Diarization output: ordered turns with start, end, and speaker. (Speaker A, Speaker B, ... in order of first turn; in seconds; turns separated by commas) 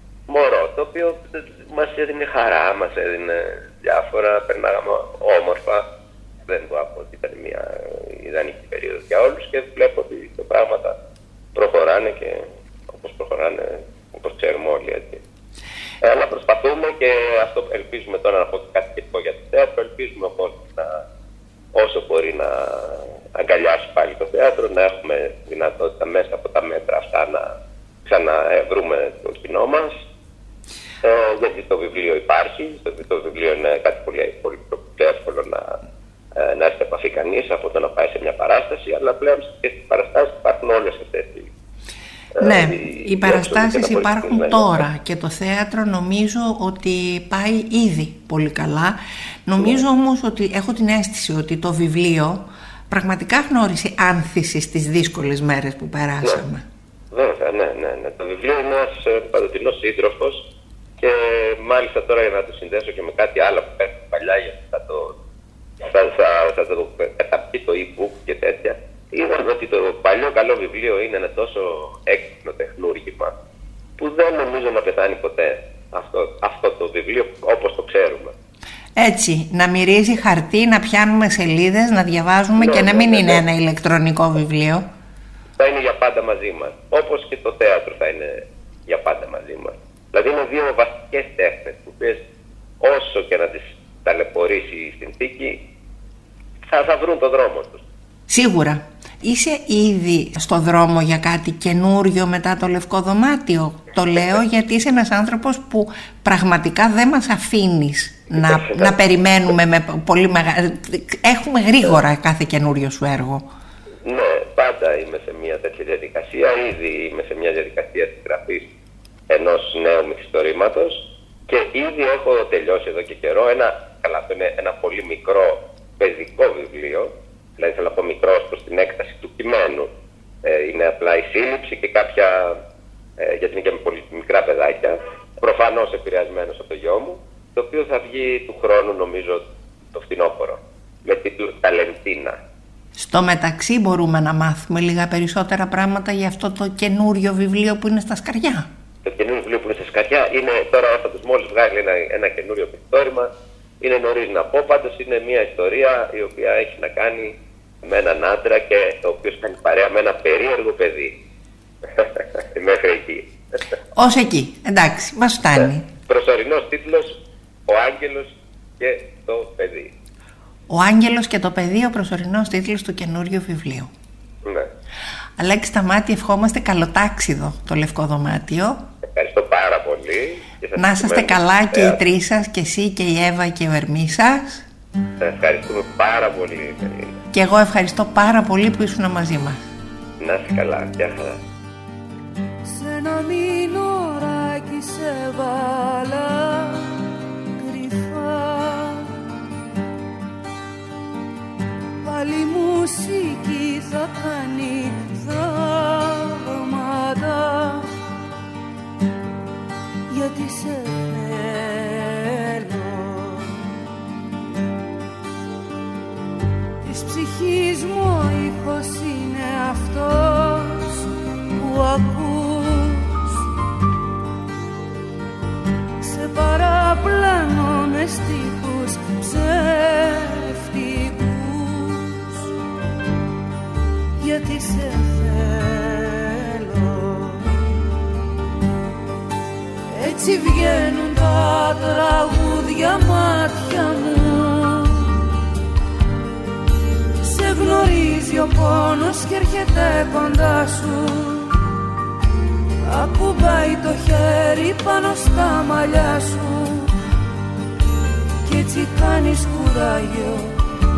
Speaker A: 0.3-5.8, Speaker A: 6.5-11.0, Speaker A: 11.6-15.2, Speaker A: 16.0-21.0, Speaker A: 21.7-27.5, Speaker A: 28.1-30.0, Speaker A: 31.0-35.8, Speaker A: 36.4-41.5, Speaker A: 42.4-44.8, Speaker B: 42.4-56.6, Speaker A: 57.1-60.5, Speaker A: 61.0-65.2, Speaker A: 65.8-73.3, Speaker A: 74.0-78.3, Speaker B: 79.0-84.9, Speaker A: 82.6-83.4, Speaker A: 85.6-92.2, Speaker A: 92.8-95.6, Speaker A: 96.7-97.8, Speaker B: 98.3-113.5, Speaker A: 108.4-108.9, Speaker A: 114.0-118.7, Speaker A: 119.3-129.9, Speaker A: 130.4-132.6, Speaker A: 133.2-142.4, Speaker B: 143.0-148.7, Speaker A: 149.0-153.3, Speaker A: 153.8-161.2, Speaker A: 161.9-163.3, Speaker B: 163.9-165.9, Speaker A: 165.6-169.9, Speaker B: 170.7-173.9, Speaker B: 175.4-178.8, Speaker A: 179.1-182.0, Speaker B: 180.8-184.7, Speaker A: 185.2-187.2, Speaker B: 187.3-189.6, Speaker A: 190.2-191.4, Speaker C: 192.7-197.0, Speaker C: 197.6-199.2, Speaker C: 202.0-207.9, Speaker C: 210.1-213.6, Speaker C: 216.8-223.3, Speaker C: 226.0-232.5, Speaker C: 234.2-237.5, Speaker C: 239.9-245.2, Speaker C: 247.2-251.6, Speaker C: 252.8-256.9, Speaker C: 258.4-260.6